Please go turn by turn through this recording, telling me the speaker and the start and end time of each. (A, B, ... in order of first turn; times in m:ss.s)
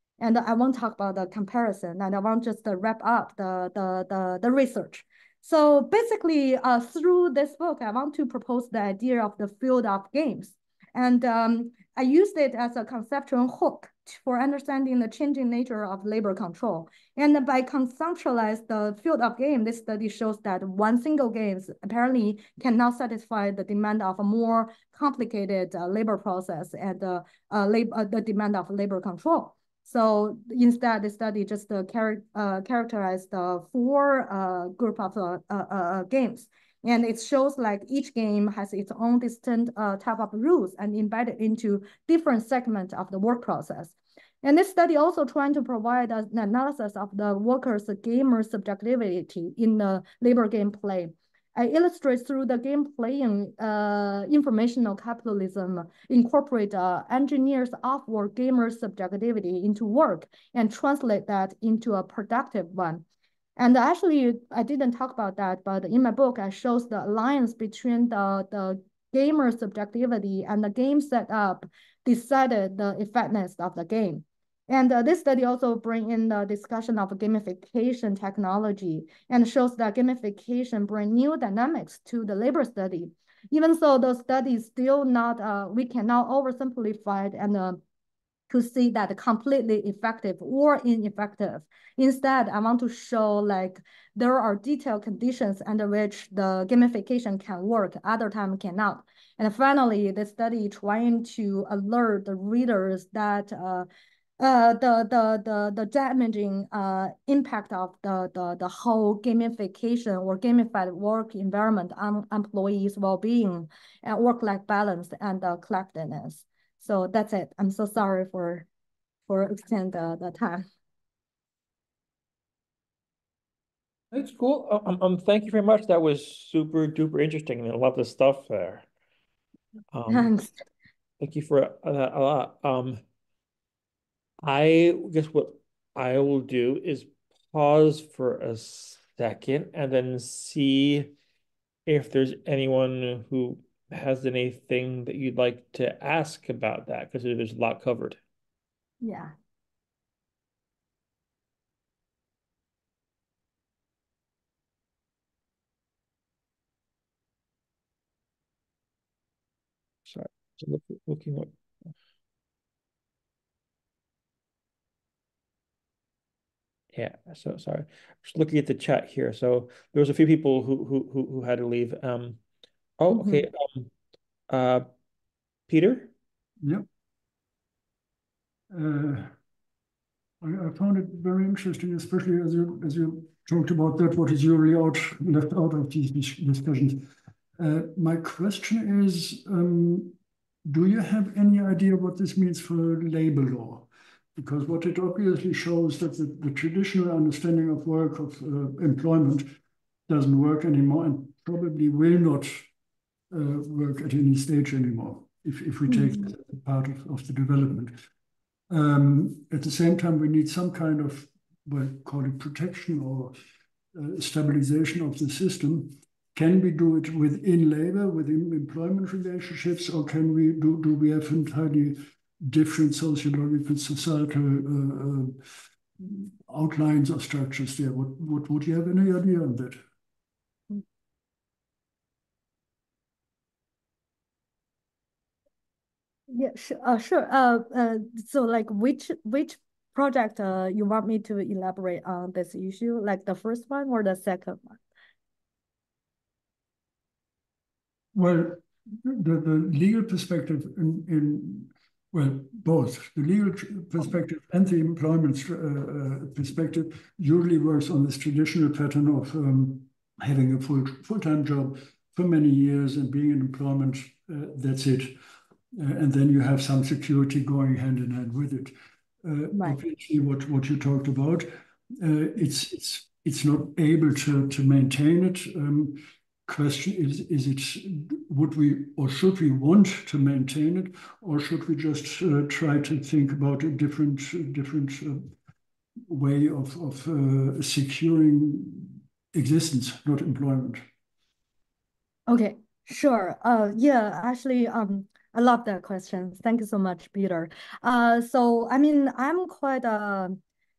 0:00.2-1:03.0 A
1:03.6-1:27.8 A
1:28.5-1:43.9 A
1:44.4-1:58.7 A
1:59.3-2:00.7 A
2:04.1-2:08.8 B
2:09.9-2:10.3 B
2:10.1-2:10.5 A
2:11.2-2:13.0 B
2:14.4-2:21.1 B
2:21.9-2:28.2 B
2:29.0-2:29.3 A
2:40.1-2:41.5 B
2:46.9-2:52.4 B
2:53.0-2:53.9 B
2:53.1-2:53.4 A
2:54.5-2:54.9 B
2:55.7-2:56.1 B
2:58.7-2:59.3 C
3:00.4-3:07.0 C
3:07.6-3:10.2 C
3:10.7-3:19.5 C
3:20.1-3:22.7 C
3:23.3-3:27.9 C
3:25.9-3:26.3 A
3:28.7-3:33.4 C
3:34.0-3:45.4 C
3:46.0-3:49.8 C
3:56.3-4:04.8 A
4:08.1-4:25.2 C
4:25.7-4:31.5 C
4:29.5-4:29.8 A
4:32.0-4:45.3 C
4:46.1-4:50.8 C
4:52.3-5:00.4 A